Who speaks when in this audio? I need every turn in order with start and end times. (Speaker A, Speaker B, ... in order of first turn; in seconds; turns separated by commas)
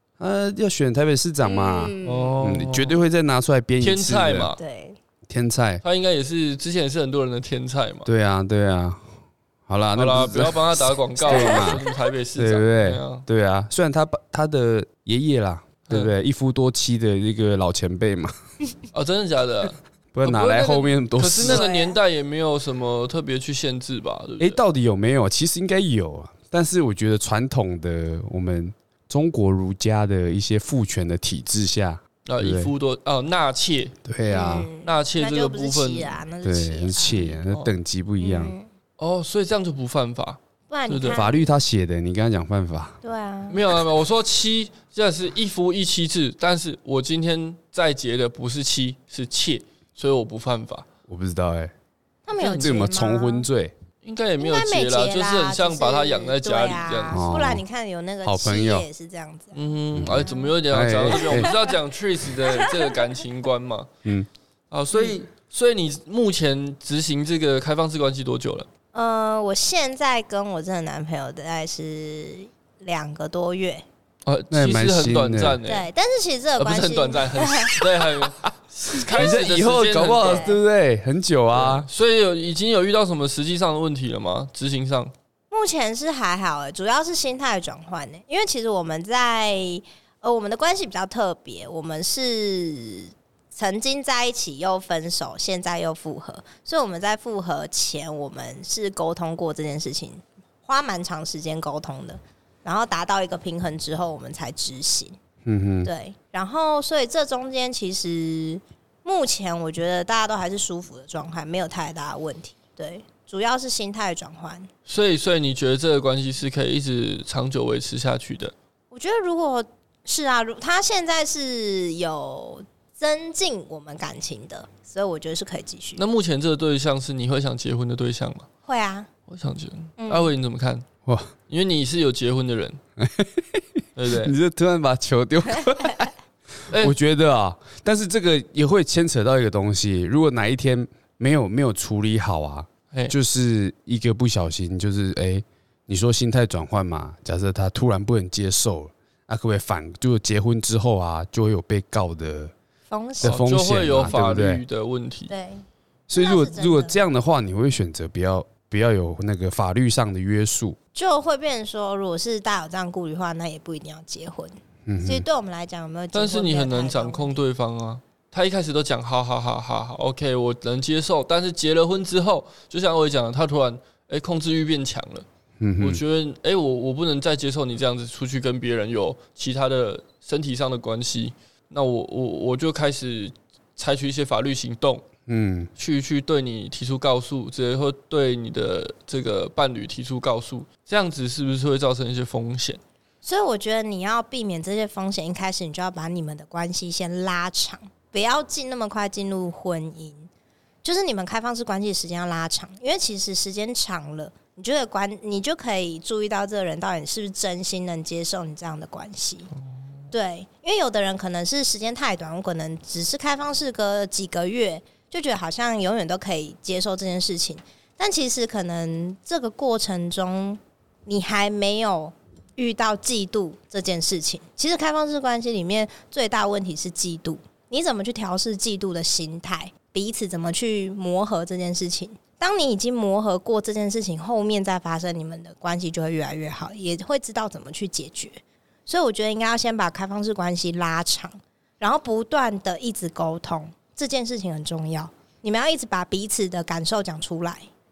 Speaker A: 0.2-4.5, Speaker B: 1.4-2.3, Speaker C: 2.0-2.9, Speaker C: 3.8-4.6, Speaker B: 4.6-5.0, Speaker A: 5.3-5.8, Speaker C: 5.8-8.1, Speaker A: 8.0-9.0, Speaker A: 9.7-11.8, Speaker C: 9.9-13.2, Speaker B: 11.2-11.8, Speaker A: 12.3-18.3, Speaker C: 18.9-24.6, Speaker A: 20.1-21.6, Speaker B: 21.4-21.9, Speaker A: 24.4-32.7, Speaker C: 32.2-34.0, Speaker A: 34.0-34.7, Speaker B: 34.3-37.3, Speaker C: 34.8-36.2, Speaker A: 36.4-38.5, Speaker C: 37.5-37.7, Speaker B: 38.2-38.7, Speaker C: 39.0-41.2, Speaker B: 40.7-41.5, Speaker A: 41.1-43.0, Speaker B: 43.0-43.6, Speaker C: 43.5-50.9, Speaker A: 51.1-51.7, Speaker B: 52.3-53.5, Speaker C: 52.4-52.9, Speaker A: 52.5-53.7, Speaker C: 54.0-57.2, Speaker B: 54.4-59.6, Speaker A: 57.1-57.6, Speaker A: 58.2-58.9, Speaker C: 59.5-63.9, Speaker A: 59.9-61.5, Speaker B: 60.1-60.5, Speaker B: 61.1-61.7, Speaker B: 62.4-62.9, Speaker C: 64.7-68.7, Speaker B: 68.9-73.8, Speaker C: 74.2-75.9, Speaker A: 74.5-75.6, Speaker B: 75.7-77.8, Speaker C: 76.6-80.5, Speaker A: 79.0-81.9, Speaker B: 80.2-80.6, Speaker C: 81.5-85.1, Speaker B: 85.5-105.2, Speaker A: 105.4-105.9, Speaker B: 105.8-114.7, Speaker C: 114.9-118.5, Speaker B: 118.9-126.0, Speaker C: 126.0-128.5, Speaker B: 128.7-129.1, Speaker C: 129.3-130.8, Speaker B: 130.0-130.3, Speaker A: 131.1-131.3, Speaker C: 131.5-132.8, Speaker A: 133.0-136.1, Speaker C: 133.9-134.3, Speaker A: 136.7-152.5, Speaker B: 152.9-153.4, Speaker A: 153.2-154.6, Speaker C: 153.2-155.3, Speaker B: 155.3-157.0, Speaker A: 156.1-160.8, Speaker B: 160.9-167.4, Speaker A: 164.8-165.2, Speaker C: 166.1-175.2, Speaker A: 175.6-176.0, Speaker C: 175.8-185.0, Speaker A: 185.3-185.7, Speaker C: 185.8-192.8, Speaker B: 193.2-200.3, Speaker B: 200.8-209.5, Speaker B: 210.1-247.7